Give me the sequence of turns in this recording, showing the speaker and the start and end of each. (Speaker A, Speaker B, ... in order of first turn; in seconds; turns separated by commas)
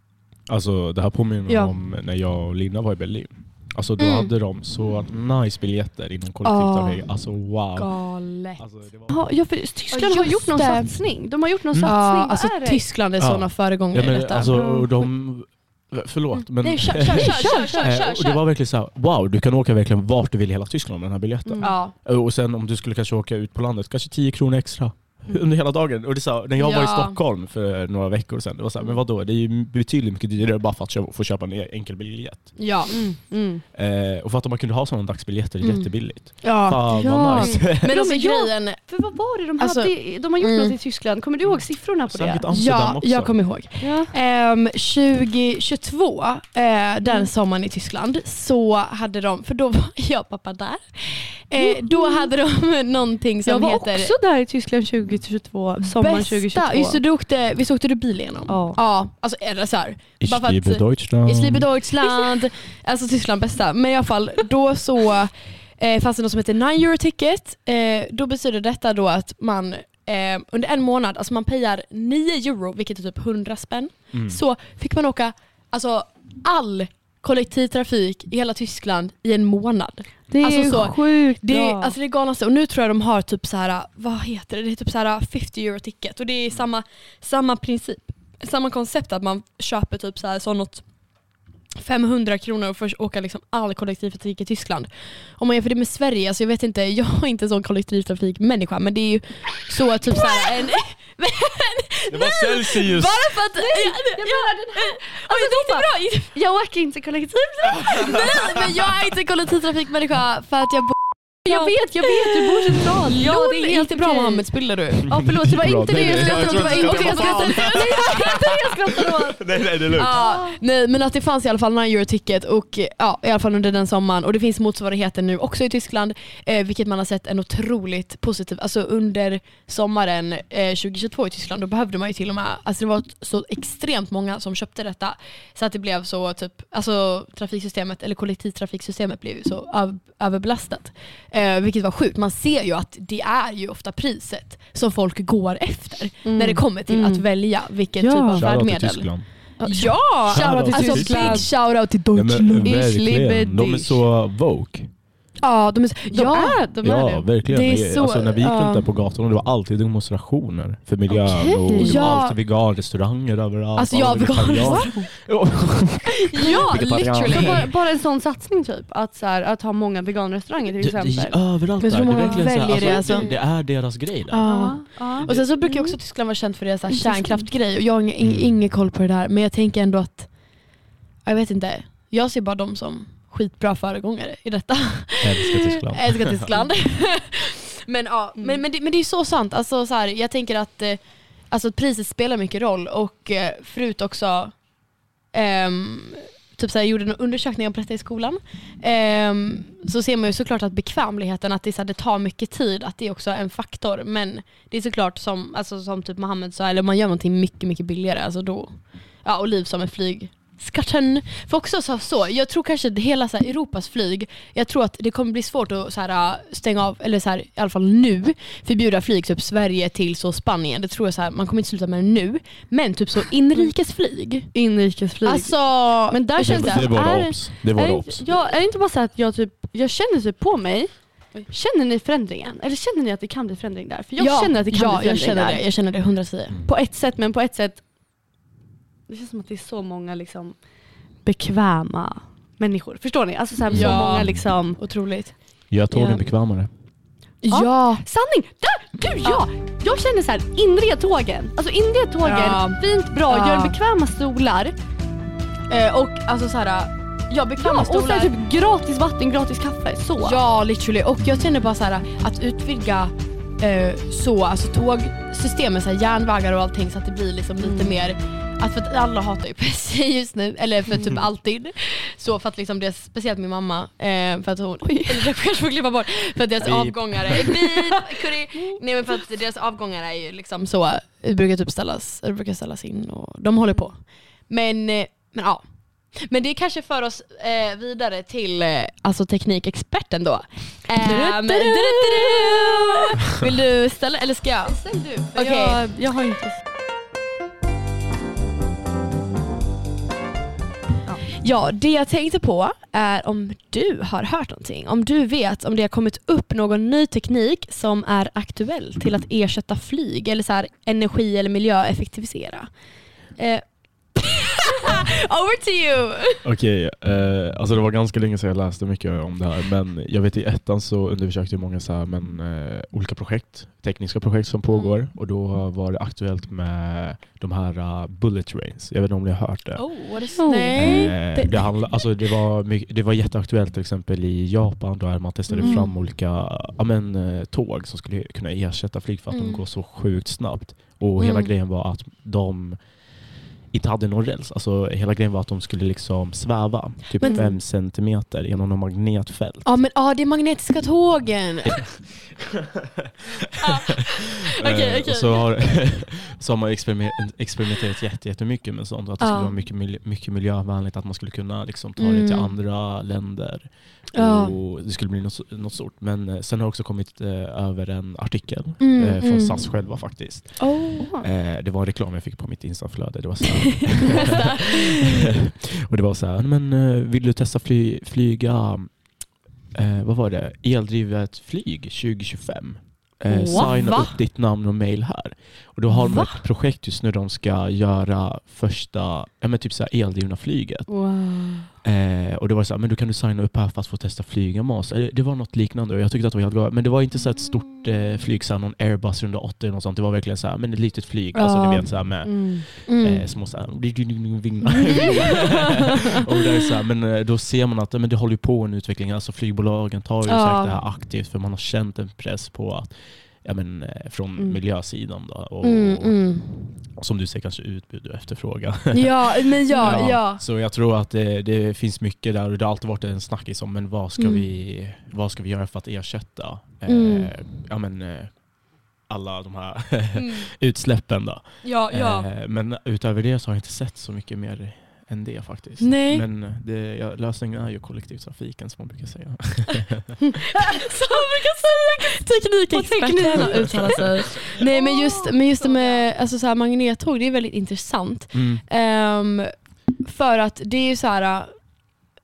Speaker A: 0.5-9.2, Speaker B: 1.5-1.7, Speaker B: 4.0-4.3, Speaker B: 6.4-9.1, Speaker C: 9.1-12.9, Speaker B: 9.9-11.0, Speaker A: 11.7-12.0, Speaker B: 11.8-14.6, Speaker A: 13.2-32.7, Speaker C: 14.5-15.0, Speaker C: 16.6-18.0, Speaker B: 16.9-18.4, Speaker C: 21.4-21.8, Speaker B: 21.6-21.9, Speaker B: 26.6-27.2, Speaker C: 28.8-29.0, Speaker B: 32.5-32.9, Speaker C: 32.9-33.6, Speaker A: 33.7-37.9, Speaker B: 35.6-39.0, Speaker C: 36.9-42.5, Speaker B: 39.6-40.8, Speaker A: 41.5-43.5, Speaker B: 42.5-54.1, Speaker C: 43.8-44.1, Speaker C: 47.0-47.3, Speaker C: 51.6-52.3, Speaker C: 53.5-57.0, Speaker B: 55.8-106.3, Speaker C: 58.5-58.8, Speaker A: 60.2-61.7, Speaker C: 62.0-62.4, Speaker A: 74.1-74.4, Speaker C: 80.3-81.9, Speaker A: 102.1-103.3, Speaker C: 103.5-108.2, Speaker B: 107.8-115.2, Speaker C: 111.4-120.6, Speaker A: 115.1-118.4, Speaker B: 115.8-118.6, Speaker A: 119.1-120.2, Speaker B: 120.0-152.8, Speaker C: 146.2-147.3, Speaker C: 148.0-148.4, Speaker A: 148.3-149.3, Speaker C: 149.6-151.5, Speaker A: 150.2-154.9, Speaker C: 152.6-154.0, Speaker B: 155.4-158.9, Speaker C: 156.1-157.3, Speaker A: 156.8-167.7, Speaker C: 161.1-162.2, Speaker B: 161.7-162.4, Speaker B: 163.8-165.2, Speaker C: 164.6-165.1, Speaker B: 166.3-167.6, Speaker C: 166.3-171.5, Speaker A: 170.8-175.5, Speaker B: 171.8-194.8, Speaker C: 172.2-173.3, Speaker C: 174.4-176.0, Speaker C: 176.9-177.5, Speaker A: 178.2-178.5, Speaker A: 185.2-186.5, Speaker C: 188.4-188.6, Speaker B: 195.3-224.5, Speaker C: 224.5-235.7, Speaker B: 225.2-226.9, Speaker A: 226.4-228.2, Speaker B: 234.2-236.6, Speaker C: 236.7-237.8, Speaker C: 239.1-240.6, Speaker C: 241.2-244.8, Speaker A: 243.7-244.5, Speaker B: 243.7-246.2, Speaker A: 245.7-246.7, Speaker B: 247.4-248.0, Speaker C: 247.5-254.8, Speaker B: 252.2-253.8, Speaker B: 255.7-258.3, Speaker C: 257.6-260.4, Speaker B: 260.2-294.8, Speaker C: 267.6-267.9, Speaker C: 274.8-275.3, Speaker A: 276.6-277.4, Speaker C: 277.3-278.8, Speaker C: 291.0-292.6, Speaker C: 294.6-296.6, Speaker B: 295.3-295.8, Speaker B: 301.3-316.4, Speaker A: 316.4-330.1, Speaker B: 324.7-324.9, Speaker B: 329.8-331.8, Speaker C: 330.2-331.2, Speaker A: 330.7-349.7, Speaker C: 335.5-335.8, Speaker B: 335.6-335.9, Speaker B: 339.3-339.6, Speaker B: 341.2-341.5, Speaker B: 347.2-347.5, Speaker C: 347.2-347.5, Speaker B: 349.6-351.9, Speaker A: 351.6-352.8, Speaker B: 353.6-356.1, Speaker A: 354.6-391.1, Speaker B: 359.2-359.6, Speaker B: 362.0-362.5, Speaker B: 364.1-364.5, Speaker B: 368.8-370.0, Speaker B: 370.6-371.1, Speaker C: 371.0-371.2, Speaker B: 373.8-375.3, Speaker C: 383.3-383.8, Speaker B: 383.4-384.2, Speaker B: 385.9-386.4, Speaker C: 390.9-391.7, Speaker A: 391.8-440.2, Speaker B: 401.3-403.3, Speaker C: 402.2-402.6, Speaker B: 404.9-405.6, Speaker B: 410.2-410.8, Speaker B: 415.6-416.7, Speaker B: 418.9-420.4, Speaker C: 419.7-420.1, Speaker B: 424.2-424.4, Speaker B: 426.9-427.3, Speaker B: 430.1-430.5, Speaker B: 431.6-432.3, Speaker B: 435.8-436.2, Speaker C: 440.2-441.1, Speaker B: 440.6-451.7, Speaker C: 442.7-446.1, Speaker A: 443.3-443.9, Speaker A: 448.3-448.6